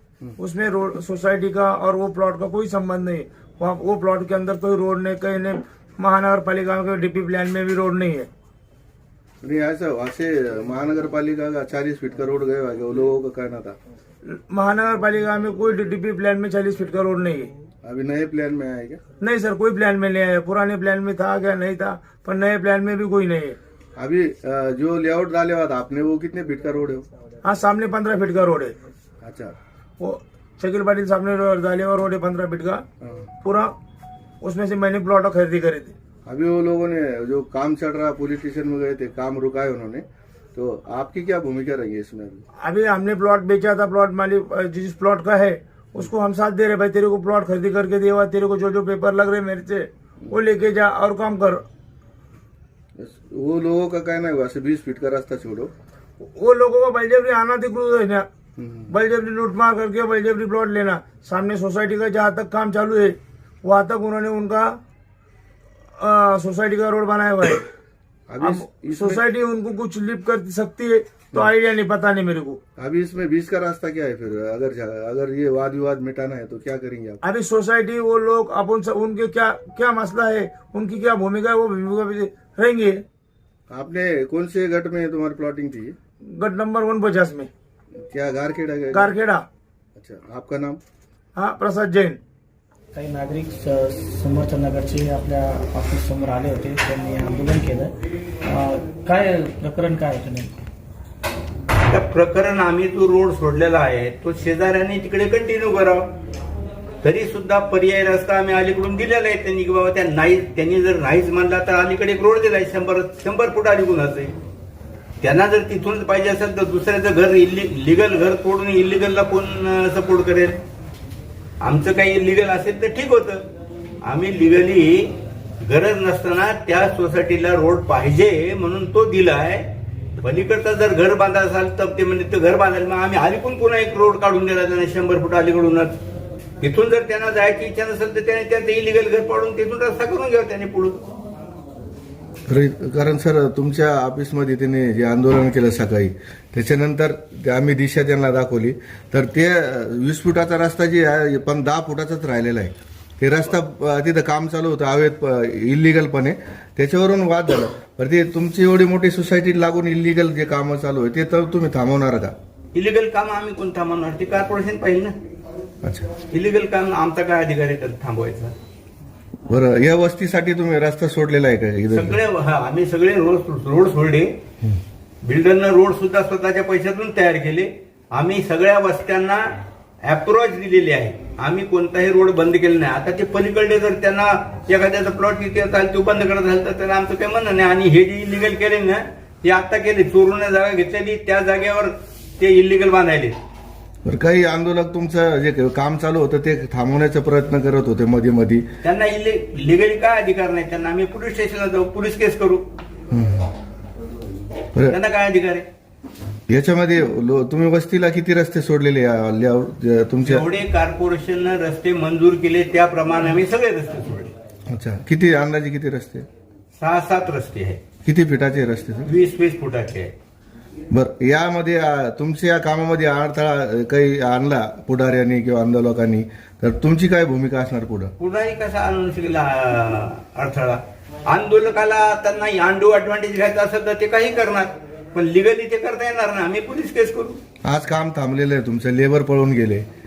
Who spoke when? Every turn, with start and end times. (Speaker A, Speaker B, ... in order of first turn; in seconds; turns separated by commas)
Speaker A: 0.4-8.3, Speaker B: 9.4-13.8, Speaker A: 14.5-17.5, Speaker B: 17.8-19.0, Speaker A: 19.2-23.6, Speaker B: 24.0-27.1, Speaker A: 27.4-28.8, Speaker B: 29.2-29.6, Speaker A: 30.0-32.8, Speaker B: 33.0-33.3, Speaker A: 33.4-33.7, Speaker A: 34.4-35.9, Speaker B: 36.3-42.4, Speaker A: 42.6-51.6, Speaker B: 53.0-55.7, Speaker A: 56.2-58.2, Speaker B: 58.6-58.9, Speaker A: 58.9-64.7, Speaker A: 66.0-67.7, Speaker B: 68.3-69.2, Speaker A: 68.4-72.6, Speaker B: 72.8-77.2, Speaker A: 77.2-83.0, Speaker B: 83.7-86.0, Speaker A: 86.4-87.5, Speaker B: 88.0-89.1, Speaker A: 88.9-89.5, Speaker B: 90.0-90.8, Speaker A: 91.4-92.2, Speaker C: 92.9-97.9, Speaker C: 98.5-100.5, Speaker D: 101.9-106.1, Speaker D: 107.0-114.3, Speaker D: 115.2-120.6, Speaker D: 121.6-123.4, Speaker D: 124.0-125.1, Speaker D: 125.7-129.7, Speaker D: 130.2-136.0, Speaker D: 136.6-141.0, Speaker B: 142.5-162.3, Speaker D: 162.7-165.1, Speaker B: 165.8-166.1, Speaker D: 166.3-168.5, Speaker B: 169.5-172.2, Speaker D: 171.9-174.3, Speaker D: 175.2-179.4, Speaker D: 180.1-193.3, Speaker B: 194.1-198.6, Speaker D: 198.8-202.7, Speaker B: 203.1-203.5, Speaker D: 204.9-205.7, Speaker B: 206.5-210.4, Speaker D: 210.2-214.3, Speaker B: 214.7-216.2, Speaker D: 216.8-217.8, Speaker B: 218.1-219.1, Speaker D: 219.1-220.1, Speaker B: 220.9-228.1, Speaker D: 228.2-237.4, Speaker B: 237.7-239.8